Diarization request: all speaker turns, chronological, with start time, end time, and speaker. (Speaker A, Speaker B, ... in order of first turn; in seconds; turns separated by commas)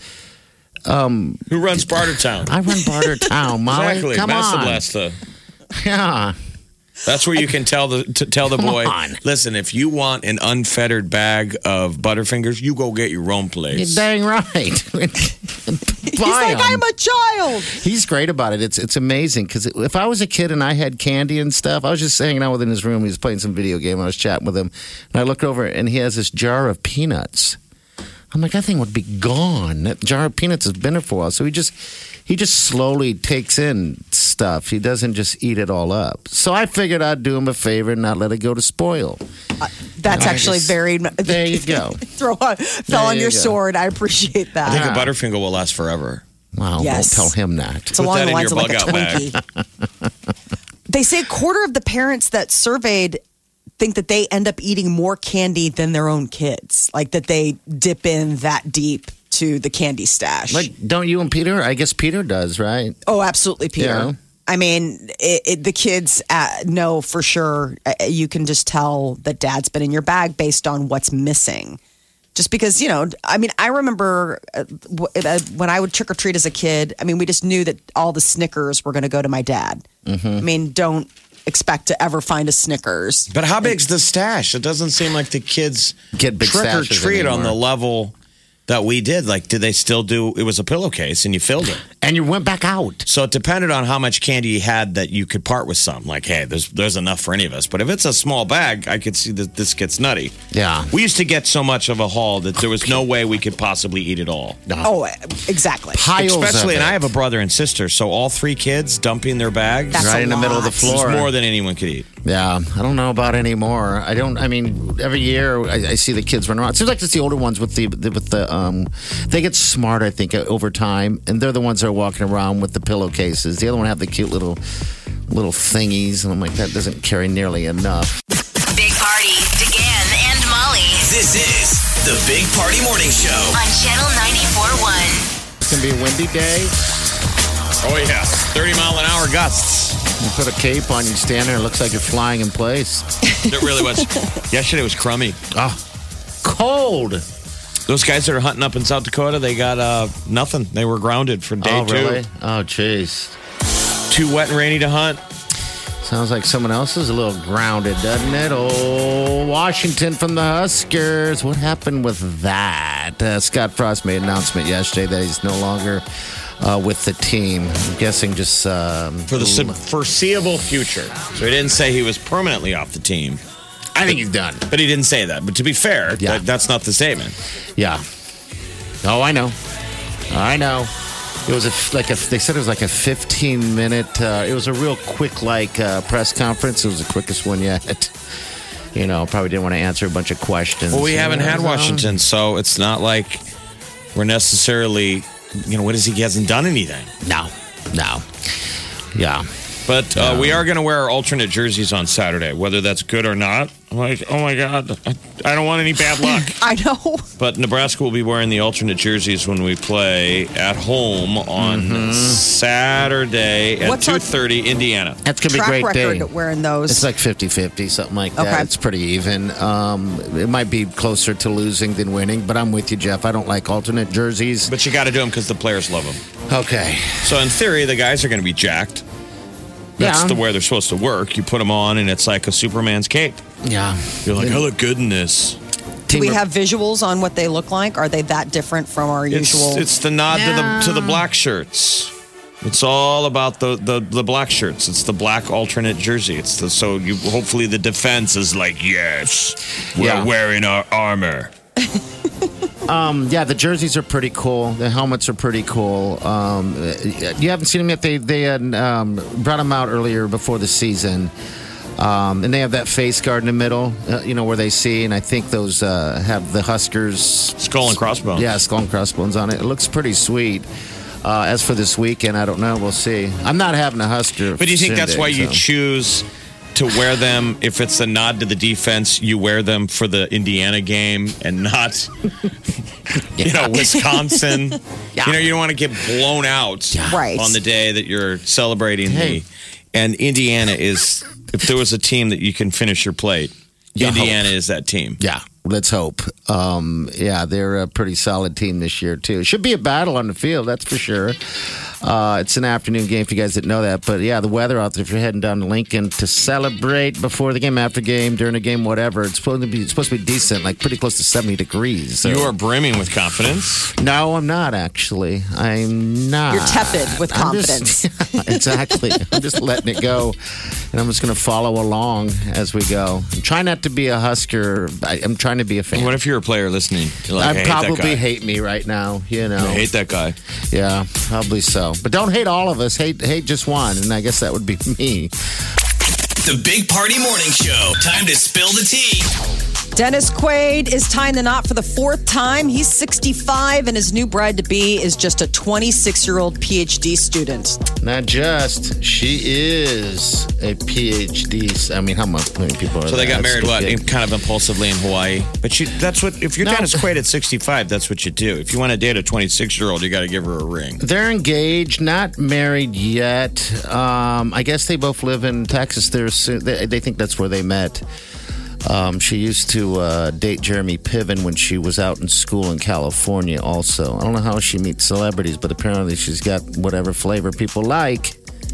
Speaker A: 0.9-4.8, Speaker B: 1.5-2.5, Speaker B: 3.7-5.2, Speaker A: 5.7-6.3, Speaker B: 7.0-14.0, Speaker A: 8.5-9.2, Speaker A: 13.7-16.8, Speaker C: 16.1-17.7, Speaker A: 17.6-27.6, Speaker A: 28.3-39.2, Speaker C: 39.6-44.9, Speaker A: 40.0-42.0, Speaker A: 42.9-43.6, Speaker A: 44.6-45.1, Speaker B: 44.6-46.2, Speaker A: 46.5-48.0, Speaker C: 46.8-47.3, Speaker B: 47.9-49.3, Speaker C: 47.9-49.4, Speaker A: 48.9-49.8, Speaker C: 50.9-53.2, Speaker C: 53.8-60.7, Speaker A: 60.5-63.0, Speaker C: 63.0-71.8, Speaker A: 63.8-64.1, Speaker C: 72.3-79.8, Speaker A: 80.0-80.5, Speaker C: 80.4-83.3, Speaker B: 83.3-88.1, Speaker A: 86.1-87.6, Speaker B: 88.7-91.8, Speaker A: 92.0-93.1, Speaker B: 93.1-100.3, Speaker A: 100.5-100.9, Speaker B: 100.9-104.6, Speaker A: 102.7-103.0, Speaker C: 104.8-106.0, Speaker A: 105.9-107.1, Speaker B: 106.2-110.1, Speaker C: 109.9-111.0, Speaker A: 109.9-111.3, Speaker B: 110.8-112.1, Speaker A: 112.2-124.6, Speaker A: 125.3-128.2, Speaker D: 128.7-130.9, Speaker E: 131.1-133.6, Speaker D: 133.4-135.3, Speaker A: 135.6-136.7, Speaker B: 137.8-140.0, Speaker A: 140.2-143.0, Speaker C: 143.3-143.6, Speaker B: 143.4-145.4, Speaker A: 145.5-145.8, Speaker A: 146.4-147.2, Speaker B: 147.9-152.2, Speaker A: 151.6-153.3, Speaker B: 154.1-155.2, Speaker A: 156.0-166.0, Speaker A: 166.6-169.8, Speaker B: 169.3-173.4, Speaker A: 173.9-174.7, Speaker B: 174.7-177.4, Speaker A: 176.2-176.4, Speaker A: 177.8-178.0, Speaker A: 179.0-179.5, Speaker A: 180.3-180.9, Speaker A: 181.4-188.1, Speaker A: 188.9-192.1, Speaker B: 190.9-193.4, Speaker B: 194.1-197.1, Speaker A: 197.2-198.2, Speaker A: 199.1-199.5, Speaker B: 199.9-206.6, Speaker A: 200.2-200.6, Speaker C: 206.2-207.2, Speaker B: 207.4-215.2, Speaker A: 211.6-212.4, Speaker C: 213.8-214.3, Speaker A: 215.2-216.3, Speaker C: 215.5-217.1, Speaker A: 216.9-224.7, Speaker C: 218.3-218.7, Speaker B: 224.6-226.2, Speaker A: 226.5-227.4, Speaker B: 227.2-229.0, Speaker B: 230.0-233.4, Speaker A: 230.0-230.4, Speaker A: 233.6-234.7, Speaker B: 234.2-235.6, Speaker A: 236.1-236.4, Speaker C: 236.1-239.8, Speaker B: 239.3-251.5, Speaker A: 240.3-241.2, Speaker A: 250.0-250.3, Speaker A: 252.8-261.3, Speaker A: 262.0-270.7, Speaker B: 267.6-268.5, Speaker A: 271.2-275.6, Speaker B: 274.5-282.1, Speaker A: 283.4-283.9, Speaker B: 283.4-295.2, Speaker A: 285.2-285.4, Speaker A: 286.9-287.2, Speaker C: 287.0-287.6, Speaker A: 289.0-289.4, Speaker A: 293.9-294.5, Speaker A: 295.2-301.4, Speaker A: 302.0-312.5, Speaker B: 312.2-313.9, Speaker A: 314.0-320.4, Speaker C: 316.5-318.7, Speaker A: 320.9-326.1, Speaker B: 325.9-328.2, Speaker A: 327.4-329.9, Speaker B: 329.6-330.4, Speaker A: 330.7-335.3, Speaker E: 336.4-339.3, Speaker C: 339.9-347.8, Speaker A: 348.0-354.0, Speaker B: 353.1-361.0, Speaker A: 356.6-357.1, Speaker A: 361.0-368.0, Speaker A: 368.8-378.4